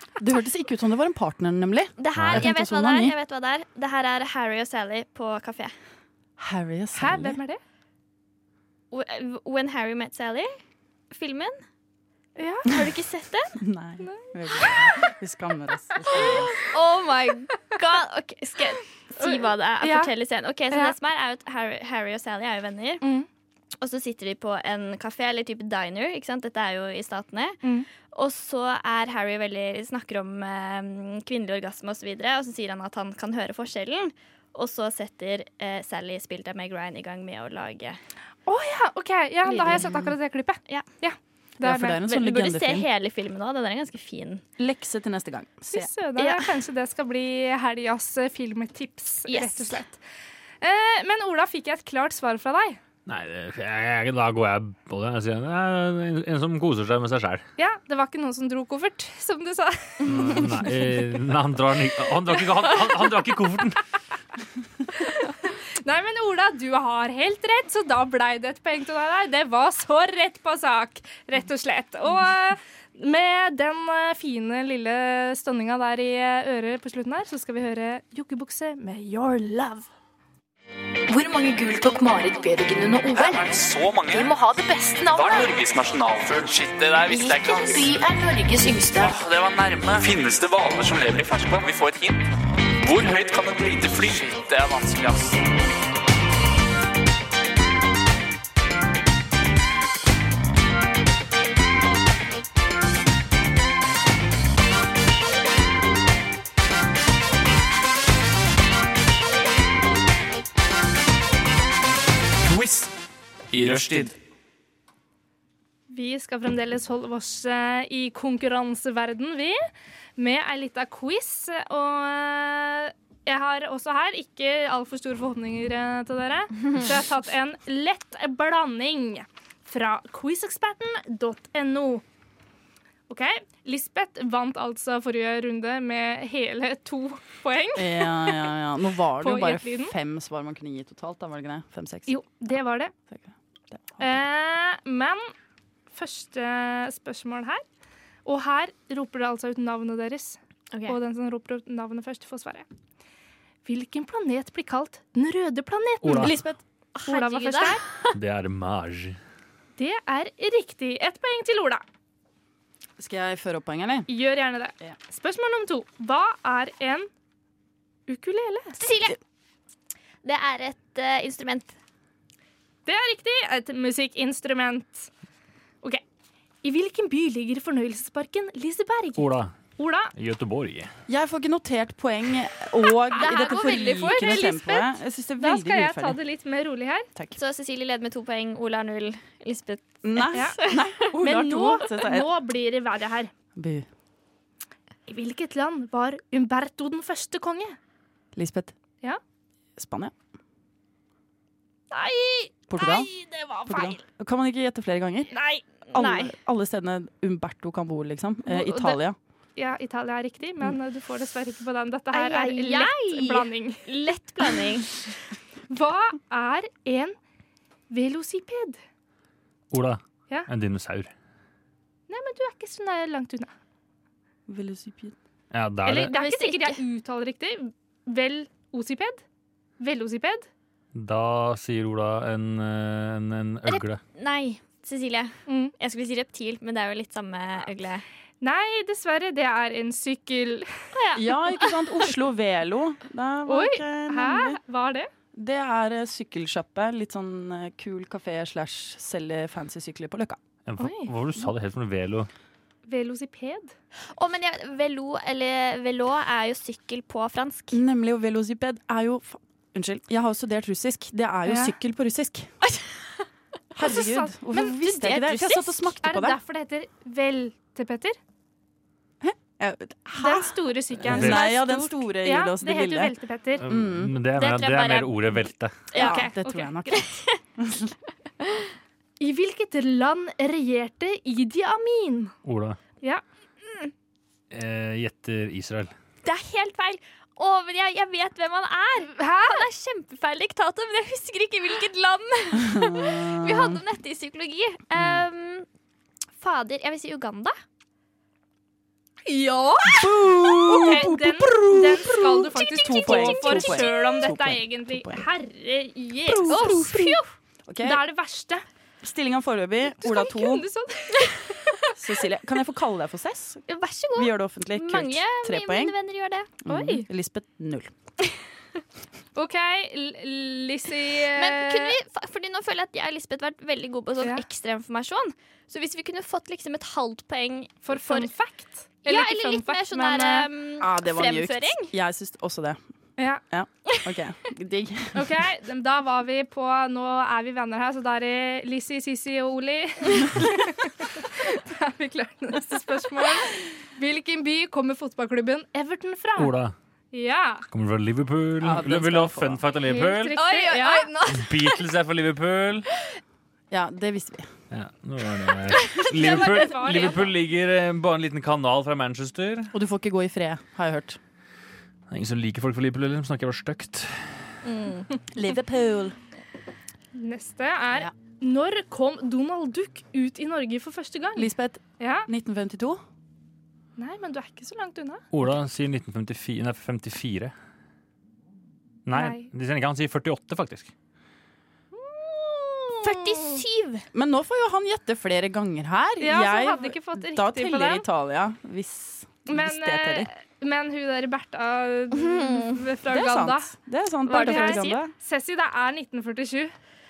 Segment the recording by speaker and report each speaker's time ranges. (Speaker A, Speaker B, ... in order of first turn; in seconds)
Speaker A: 0.2-3.1, 6.4-7.4, 13.6-16.5, 39.5-40.1, 41.6-42.9, 44.6-45.9, 137.8-142.1, 143.1-144.0, 163.0-164.1, 181.1-186.2, 190.0-192.3, 193.6-193.9, 198.3-198.7, 199.8-200.1, 202.7-203.1, 203.7-205.3, 205.9-209.2, 224.5-225.1, 241.1-244.6, 245.3-250.4, 257.7-262.5, 263.7-266.4, 269.2-273.1, 273.6-274.2, 275.9-277.9, 292.6-293.8, 299.9-305.2, 306.2-308.0, 309.0-310.7, 311.9-315.9, 316.6-317.9, 330.8-332.8, 333.5-335.4, 348.6-349.6, 353.7-354.5, 359.7-361.2, 365.3-366.1, 371.4-373.0, 384.1-390.3, 393.1-395.1
Speaker B: 2.0-5.7, 8.9-10.5, 11.1-11.6, 12.7-13.6, 16.1-23.0, 23.8-38.0, 39.5-40.1, 42.0-44.4, 46.2-46.5, 49.3-49.8, 150.7-151.0, 156.1-158.2, 168.8-169.2, 170.2-171.7, 183.3-184.1, 187.3-190.8, 205.9-206.3, 212.1-215.0, 226.0-226.8, 233.7-238.0, 240.9-241.7, 254.1-257.8, 264.9-265.6, 274.3-276.3, 276.9-277.2, 286.2-295.6, 296.4-297.6, 302.6-304.3, 306.4-307.2, 313.7-317.0, 321.3-328.3, 329.0-331.9, 350.3-351.8, 364.6-365.1, 383.0-384.1, 392.1-392.8, 394.3-395.0
Speaker C: 2.1-2.5, 53.0-57.4, 60.1-63.8, 156.0-156.3, 158.1-159.2, 179.2-179.5, 180.1-180.9, 219.7-221.1, 225.5-226.1, 230.9-234.0, 250.7-252.3, 271.1-271.4, 273.6-275.8, 282.4-282.8, 284.5-285.9, 346.4-346.7, 347.7-350.4, 351.3-352.9, 354.7-359.7, 362.1-364.5, 375.3-377.5, 379.1-380.9
Speaker D: 6.9-7.6, 12.4-12.7, 14.0-14.7, 19.2-20.1, 23.0-23.3, 38.5-42.0, 45.7-50.0, 50.6-52.8, 57.6-60.4, 64.9-79.9, 115.9-132.0, 133.1-138.5, 139.2-139.9, 142.1-142.9, 144.0-145.3, 145.9-147.6, 148.2-152.7, 153.6-156.3, 157.0-157.8, 159.8-161.8, 164.1-167.1, 168.1-168.8, 172.8-175.1, 176.6-179.2, 179.8-180.1, 183.1-187.1, 190.3-193.3, 195.1-197.8, 201.9-203.9, 208.5-209.0, 209.6-213.8, 215.7-217.2, 217.9-218.8, 222.1-223.5, 225.8-229.2, 229.8-230.5, 235.5-235.7, 238.4-240.7, 243.5-245.1, 250.8-251.1, 252.9-253.7, 261.4-261.7, 263.8-265.4, 265.9-268.2, 270.2-273.6, 275.9-276.7, 279.2-282.3, 289.1-289.6, 299.2-300.1, 300.6-306.8, 307.8-308.6, 310.0-311.9, 319.4-321.9, 327.8-330.5, 333.2-333.4, 335.1-346.5, 347.1-347.6, 349.9-351.1, 356.0-357.3, 367.1-372.3, 374.0-375.2, 379.1-379.5, 386.2-388.0, 389.5-393.7, 394.3-396.7
Speaker E: 81.1-83.5, 84.1-85.5, 87.1-89.2
Speaker F: 83.2-84.3, 85.1-88.0, 89.0-92.2, 92.8-95.4, 112.4-112.9, 113.5-114.2